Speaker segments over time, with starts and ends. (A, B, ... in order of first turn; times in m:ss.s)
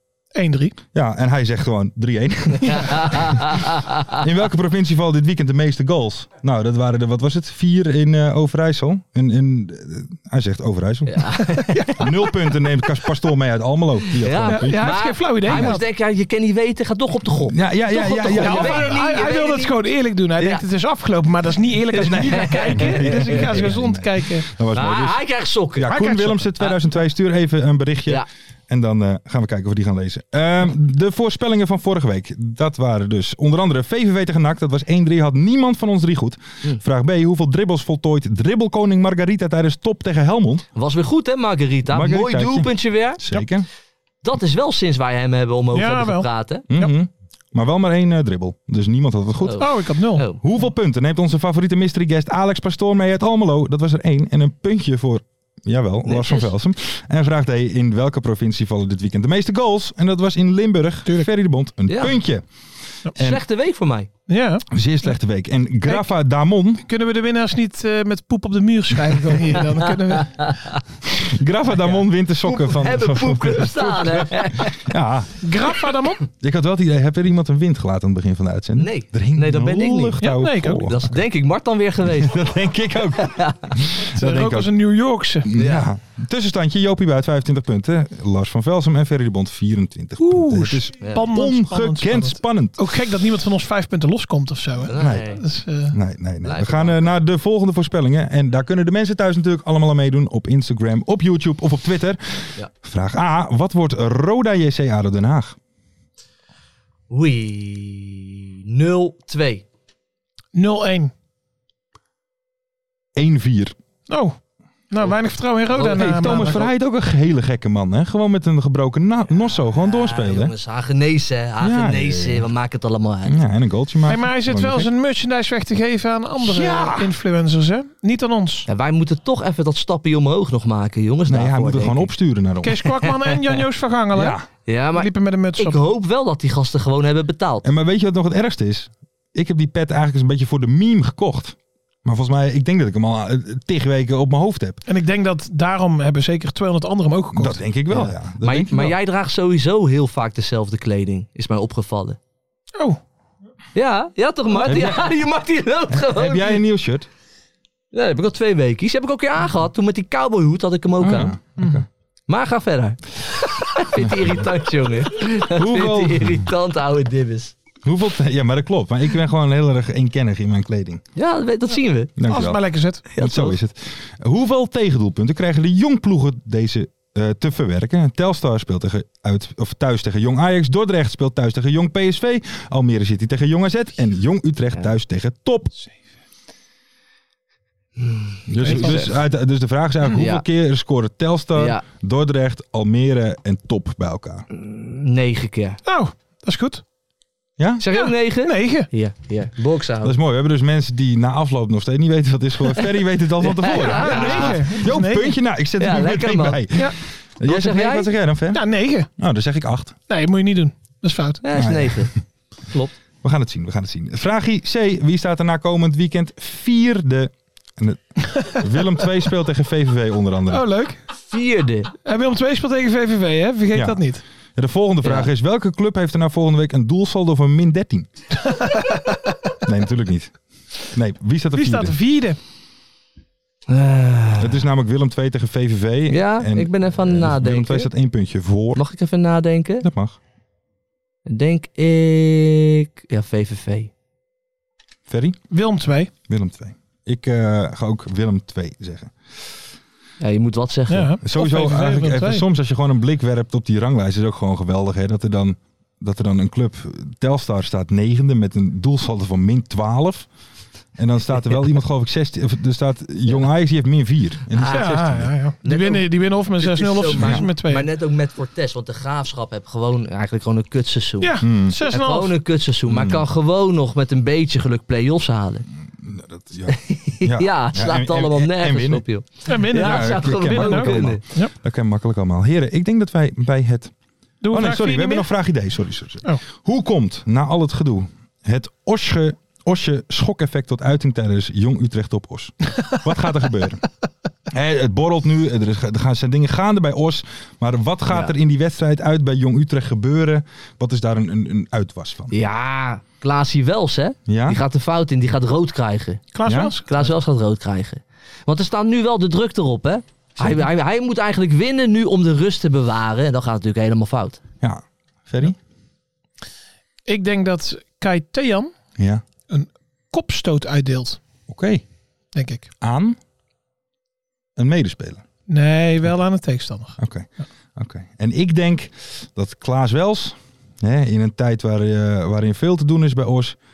0:00.4-0:00.8 A
0:00.9-0:11.3 B
0:02.7-0:04.2 C
0:11.1-0:12.2 C
0:12.0-0:15.8 B
0:14.2-0:19.8 C
0:14.5-0:15.8 A
0:17.4-0:18.9 B
0:18.3-0:24.5 A
0:21.9-0:40.7 B
0:22.0-0:23.7 C
0:24.7-0:26.0 C
0:25.9-0:26.4 A
0:40.8-0:43.4 C
0:41.9-0:43.7 B
0:44.2-0:46.6 C
0:45.7-0:46.9 A
0:46.7-0:49.8 B
0:49.4-0:50.4 C
0:49.6-0:50.2 A
0:50.4-1:02.4 B
0:56.0-0:56.5 C
1:01.9-1:02.2 C
1:03.1-1:03.4 B
1:03.2-1:04.1 C
1:04.3-1:04.7 A
1:04.7-1:06.8 B
1:06.8-1:10.6 A
1:11.2-1:15.4 B
1:11.8-1:14.9 C
1:15.4-1:16.3 A
1:16.4-1:21.1 B
1:18.8-1:20.2 C
1:20.2-1:20.9 A
1:20.8-1:22.5 C
1:22.1-1:24.7 B
1:23.2-1:23.7 C
1:24.1-1:25.5 A
1:25.5-1:32.8 B
1:25.6-1:25.9 C
1:30.2-1:36.0 A
1:31.0-1:31.3 C
1:34.9-1:35.4 C
1:35.0-1:35.2 B
1:35.9-1:45.6 B
1:36.4-1:37.2 C
1:47.1-1:49.6 C
1:50.5-1:51.1 A
1:53.2-1:53.8 B
1:54.1-1:54.4 A
1:54.9-1:56.6 A
1:55.7-1:56.7 C
1:55.8-2:00.5 B
1:59.3-2:03.4 C
2:01.6-2:02.5 B
2:03.3-2:04.9 B
2:04.1-2:08.7 A
2:06.4-2:07.1 B
2:08.7-2:12.1 C
2:11.3-2:13.0 B
2:12.6-2:14.4 A
2:14.1-2:14.4 B
2:14.7-2:17.6 C
2:14.9-2:15.8 A
2:17.6-2:24.8 B
2:24.9-2:27.6 A
2:27.3-2:29.0 B
2:27.9-2:32.2 C
2:33.8-2:36.6 C
2:34.6-2:35.1 B
2:35.9-2:37.1 B
2:37.9-2:41.3 C
2:41.0-2:41.9 B
2:42.3-2:47.6 C
2:44.0-2:44.4 B
2:45.6-2:46.5 B
2:47.8-2:51.0 B
2:51.2-2:52.1 C
2:52.2-2:52.6 B
2:52.3-2:53.0 A
2:53.1-2:53.6 C
2:53.2-3:05.8 B
3:08.0-3:09.2 C
3:08.5-3:14.5 B
3:08.6-3:09.0 A
3:10.2-3:10.4 C
3:11.6-3:11.8 C
3:14.5-3:15.8 C
3:15.9-3:16.8 A
3:17.6-3:17.8 B
3:17.8-3:20.2 C
3:17.9-3:18.9 A
3:20.0-3:28.6 B
3:23.4-3:24.6 C
3:23.8-3:25.4 A
3:25.8-3:26.7 C
3:27.5-3:28.1 C
3:28.5-3:29.1 A
3:29.2-3:30.0 B
3:30.1-3:31.4 A
3:31.4-3:32.1 C
3:31.6-3:32.1 B
3:32.6-3:32.9 C
3:33.2-3:40.6 B
3:40.5-3:41.0 A
3:41.3-3:41.9 C
3:42.1-3:44.2 A
3:43.7-3:44.0 B
3:44.6-3:48.1 B
3:45.0-3:45.3 C
3:48.5-3:49.2 A
3:49.6-3:52.0 B
3:51.5-3:52.4 A
3:53.7-3:54.6 C
3:54.4-3:58.8 B
3:56.1-3:57.9 C
3:58.7-3:59.9 C
3:59.8-4:00.2 B
4:01.3-4:03.9 C
4:05.1-4:05.4 B
4:05.5-4:06.1 A
4:06.3-4:09.1 B
4:10.2-4:11.1 C
4:10.9-4:12.4 A
4:11.2-4:20.3 B
4:21.0-4:25.3 B
4:24.5-4:25.1 C
4:24.7-4:27.9 A
4:25.6-4:35.6 C
4:27.2-4:27.4 B
4:31.2-4:32.3 A
4:31.4-4:31.8 B
4:32.9-4:33.2 B
4:35.9-4:39.1 B
4:36.7-4:41.2 C
4:39.5-4:41.5 A
4:39.7-4:43.9 B
4:44.4-4:45.3 A
4:44.5-4:53.8 B
4:54.5-5:02.3 B
5:02.3-5:06.3 C
5:04.3-5:04.6 B
5:06.3-5:07.1 A
5:06.4-5:06.8 B
5:06.9-5:14.4 C
5:14.6-5:15.6 B
5:17.1-5:18.7 A
5:19.0-5:19.2 B
5:19.5-5:21.2 A
5:21.5-5:21.8 B
5:22.4-5:22.7 A
5:22.8-5:23.2 B
5:24.6-5:25.2 B
5:25.5-5:27.0 A
5:27.0-5:33.6 B